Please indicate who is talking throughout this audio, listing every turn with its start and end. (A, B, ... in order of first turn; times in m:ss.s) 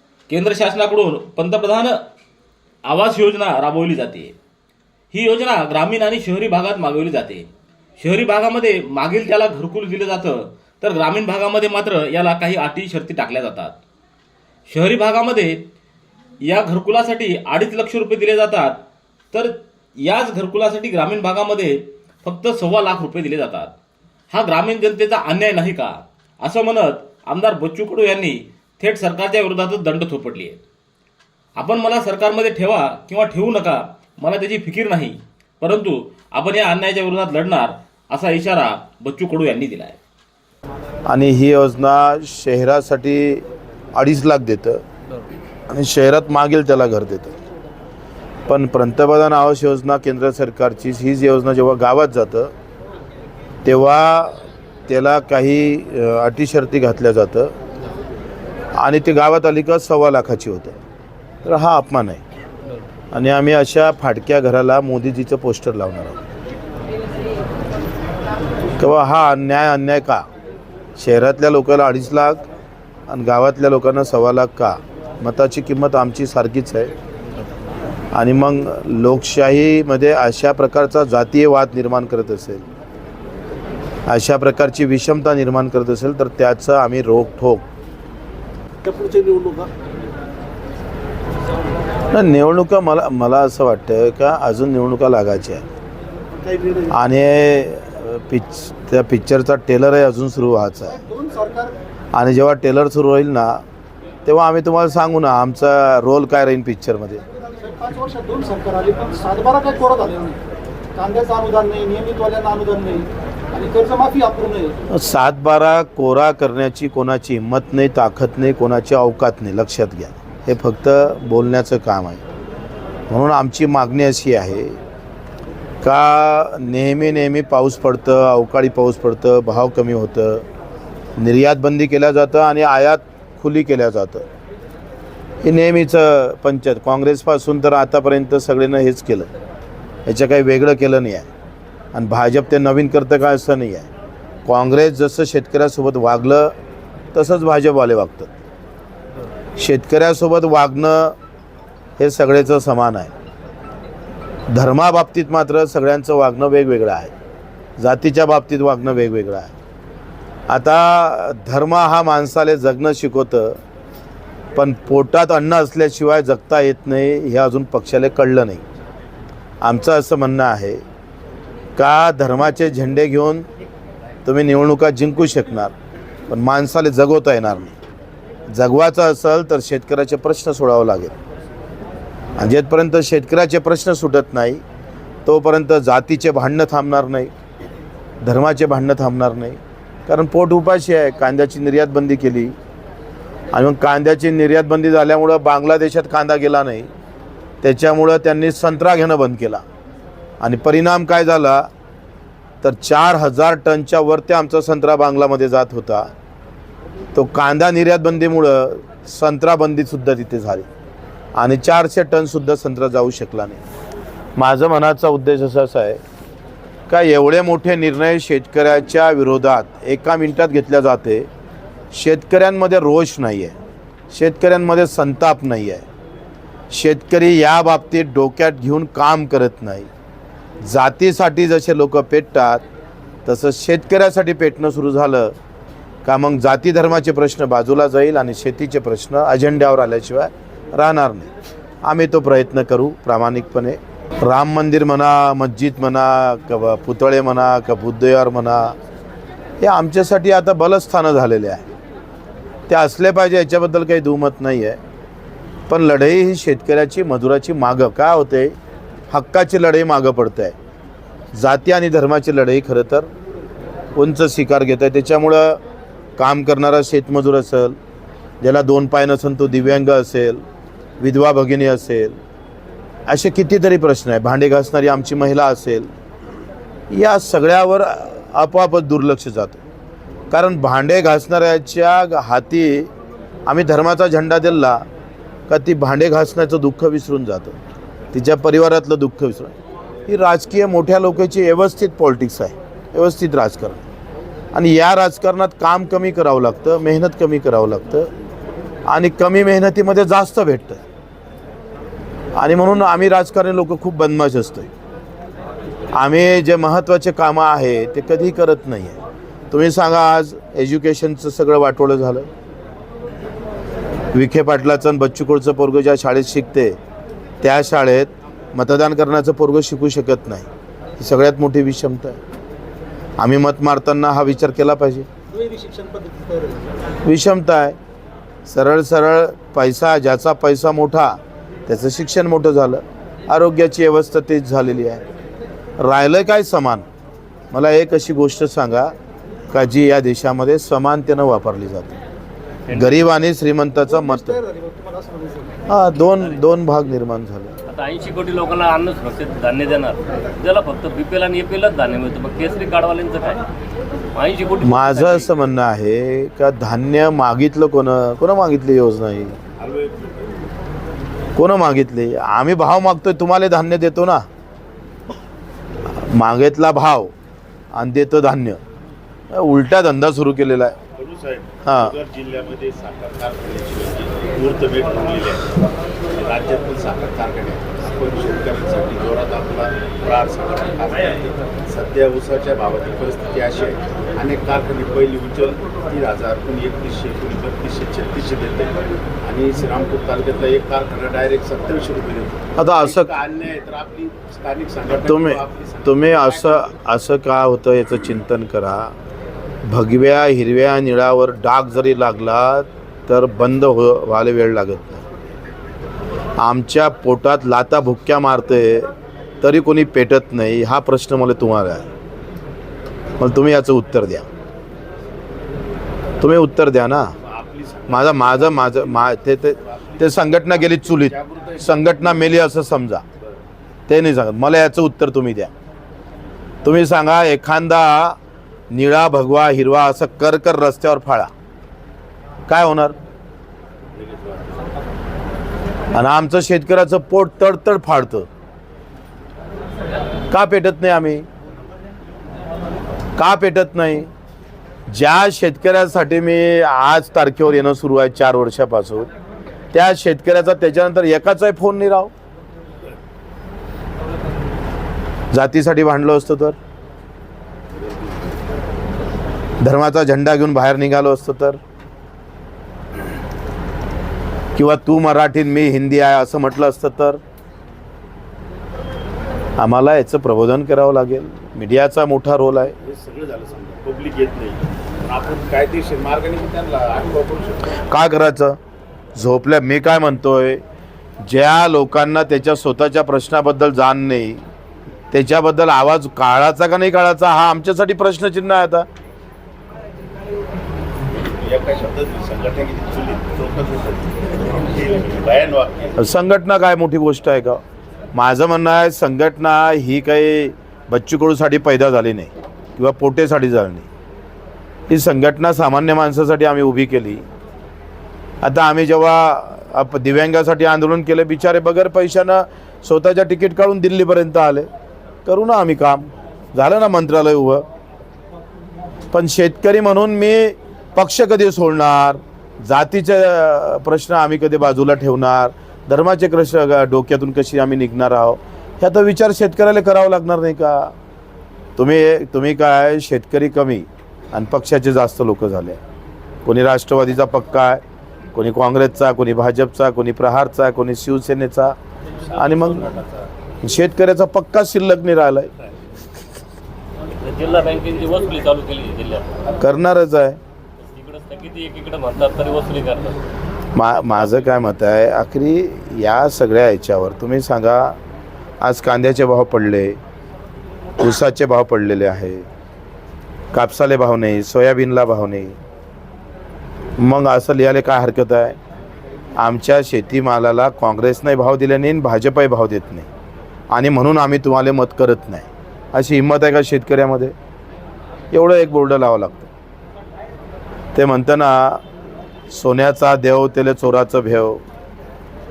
0:00.3-0:02.0 A
0:02.8-0:04.4 A
0:05.1-0:07.5 A
0:08.0-0:13.8 A
0:14.7-0:15.7 A
0:16.4-0:18.8 A
0:19.3-0:23.7 A
0:24.3-0:30.6 A
0:31.6-0:40.0 A
0:41.1-0:44.8 B
0:45.7-0:47.4 B
0:48.5-0:52.5 B
0:53.6-0:57.5 B
0:58.8-1:00.8 B
1:01.4-1:02.2 B
1:03.1-1:06.2 B
1:08.8-1:10.2 B
1:11.0-1:12.4 B
1:13.1-1:16.9 B
1:18.1-1:22.6 B
1:24.1-1:27.6 B
1:28.8-1:29.7 C
1:32.1-1:35.6 B
1:36.4-1:36.9 C
1:36.9-1:41.0 B
1:41.0-1:41.8 C
1:42.1-1:43.6 B
1:44.2-1:47.2 B
1:47.6-1:50.4 C
1:51.0-1:54.8 C
1:54.9-2:02.2 B
2:03.1-2:04.8 B
2:05.8-2:10.4 B
2:11.2-2:14.2 B
2:15.4-2:19.3 B
2:20.1-2:21.3 B
2:21.9-2:23.9 B
2:24.5-2:26.5 B
2:27.1-2:28.3 B
2:29.6-2:31.2 B
2:32.0-2:33.1 B
2:34.5-2:37.1 B
2:37.8-2:39.5 B
2:40.5-2:43.6 B
2:44.6-2:48.6 B
2:49.6-2:50.8 B
2:51.8-2:53.5 B
2:54.2-2:55.7 B
2:56.3-2:57.7 B
2:58.5-3:01.2 B
3:02.4-3:04.6 B
3:05.2-3:07.3 B
3:08.2-3:12.6 B
3:13.5-3:16.9 B
3:17.6-3:19.6 B
3:20.4-3:21.7 B
3:22.6-3:26.1 B
3:27.1-3:30.7 B
3:31.4-3:33.6 B
3:34.4-3:36.0 B
3:36.9-3:41.3 B
3:41.9-3:43.6 B
3:44.1-3:45.8 B
3:46.7-3:49.9 B
3:50.6-3:52.6 B
3:53.2-3:55.3 B
3:56.0-4:01.3 B
4:01.8-4:08.8 B
4:09.6-4:11.6 B
4:12.7-4:14.8 B
4:15.7-4:18.6 B
4:19.1-4:20.6 B
4:21.3-4:23.1 B
4:24.0-4:25.6 B
4:26.2-4:27.8 B
4:28.4-4:30.4 B
4:31.0-4:32.2 B
4:33.1-4:35.9 B
4:36.9-4:39.6 B
4:40.3-4:42.9 B
4:43.5-4:44.8 B
4:45.5-4:47.6 B
4:48.1-4:49.5 B
4:50.1-4:53.8 B
4:54.5-4:58.1 B
4:58.9-5:00.8 B
5:02.4-5:04.7 B
5:05.9-5:09.0 B
5:09.5-5:12.3 B
5:14.1-5:16.8 B
5:17.4-5:20.5 B
5:21.0-5:22.2 B
5:23.2-5:25.1 B
5:25.3-5:26.8 C
5:27.0-5:27.8 B
5:28.4-5:35.0 B
5:35.8-5:36.9 B
5:37.5-5:38.9 B
5:39.5-5:42.0 B
5:42.7-5:43.1 D
5:42.7-5:44.4 B
5:43.9-5:45.6 C
5:45.7-5:47.6 B
5:47.7-5:53.5 D
5:54.1-5:55.3 D
5:54.6-5:59.4 B
5:59.6-6:00.4 E
6:01.4-6:04.2 B
6:05.9-6:07.1 B
6:07.7-6:08.6 B
6:09.3-6:10.8 B
6:11.0-6:15.5 E
6:11.6-6:12.0 B
6:16.1-6:36.7 E
6:32.6-6:33.2 B
6:35.1-6:38.9 B
6:39.6-6:45.1 B
6:46.4-6:48.9 B
6:49.4-6:51.9 B
6:53.2-6:54.3 B
6:56.2-6:57.1 B
6:57.2-7:02.0 E
6:57.9-7:03.0 B
7:03.9-7:05.5 B
7:06.6-7:08.2 B
7:08.7-7:11.3 B
7:12.5-7:13.0 B
7:13.9-7:14.6 E
7:15.9-7:18.3 B
7:20.3-7:21.3 B
7:23.2-7:24.1 B
7:24.9-7:29.1 B
7:29.7-7:32.1 B
7:35.3-7:36.6 B
7:39.6-7:41.6 B
7:44.6-7:47.2 B
7:49.6-7:52.8 B
7:52.8-7:57.7 E
7:57.9-7:58.6 B
7:59.2-8:00.6 B
8:01.2-8:04.4 B
8:05.1-8:08.9 B
8:11.4-8:16.0 E
8:16.0-8:17.6 B
8:18.1-8:23.9 B
8:24.9-8:27.2 B
8:28.4-8:34.7 B
8:35.3-8:37.6 B
8:39.1-8:50.9 B
8:51.8-8:55.8 B
8:56.4-8:57.8 B
8:58.3-9:01.8 B
9:02.3-9:03.3 E
9:02.3-9:03.0 B
9:03.6-9:05.5 B
9:07.2-9:09.5 D
9:09.6-9:10.4 B
9:10.8-9:13.2 D
9:13.8-9:18.0 B
9:18.6-9:20.0 B
9:21.0-9:22.4 B
9:23.5-9:25.6 B
9:27.0-9:28.6 B
9:29.4-9:33.1 B
9:33.7-9:37.3 B
9:38.3-9:39.5 B
9:40.9-9:41.8 B
9:42.5-9:44.6 B